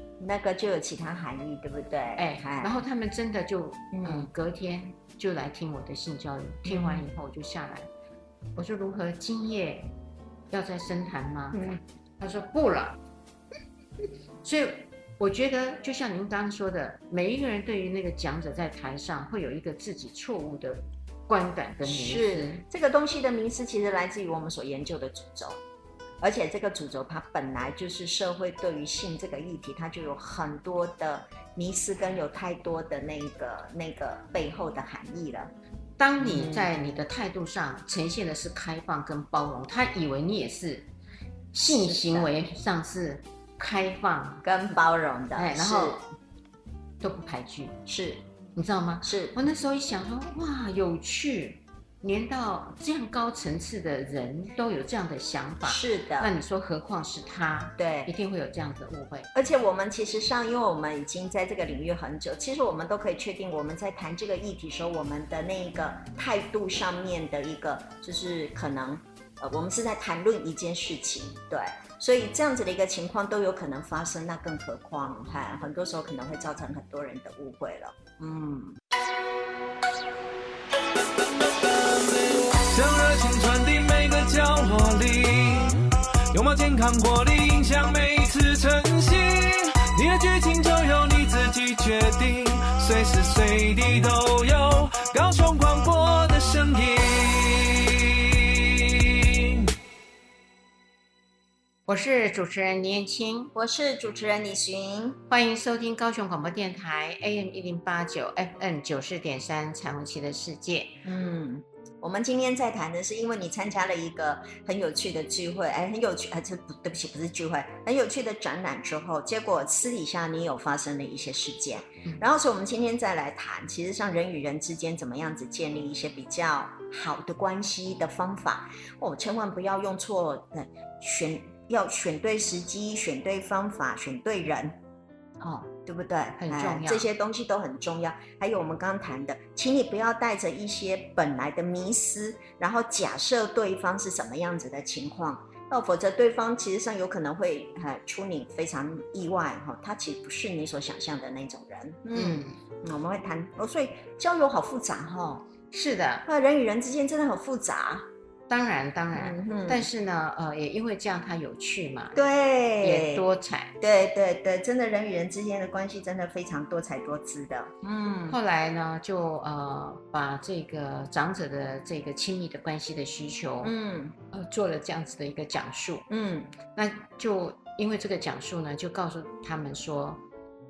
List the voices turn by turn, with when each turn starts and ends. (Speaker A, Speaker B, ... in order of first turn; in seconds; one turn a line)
Speaker A: 0.2-2.8
Speaker B: 2.2-7.9
Speaker A: 3.9-4.3
Speaker A: 6.7-7.1
Speaker B: 8.6-9.9
Speaker B: 10.5-13.0
Speaker A: 11.5-11.8
Speaker B: 14.4-22.6
Speaker A: 21.8-25.6
Speaker A: 26.2-35.5
Speaker B: 36.0-40.9
Speaker A: 36.2-36.7
Speaker B: 41.5-44.4
Speaker A: 41.6-42.3
Speaker A: 44.4-46.0
Speaker B: 45.4-46.0
Speaker B: 47.0-47.8
Speaker A: 47.9-48.2
Speaker B: 48.5-59.3
Speaker A: 49.0-49.4
Speaker A: 55.6-56.3
Speaker A: 57.8-58.1
Speaker A: 59.4-78.8
Speaker C: 82.3-85.8
Speaker C: 86.3-99.7
Speaker B: 101.9-103.5
Speaker A: 103.5-105.2
Speaker B: 105.3-111.0
Speaker A: 111.0-134.8
Speaker A: 135.4-155.4
Speaker B: 136.4-137.1
Speaker B: 152.1-152.6
Speaker B: 155.7-156.3
Speaker A: 156.3-158.1
Speaker B: 158.5-162.2
Speaker A: 159.1-159.9
Speaker A: 162.1-163.3
Speaker B: 162.8-163.8
Speaker A: 163.8-168.4
Speaker B: 168.3-173.7
Speaker A: 173.6-174.2
Speaker B: 174.3-176.1
Speaker A: 176.1-176.5
Speaker B: 176.8-180.2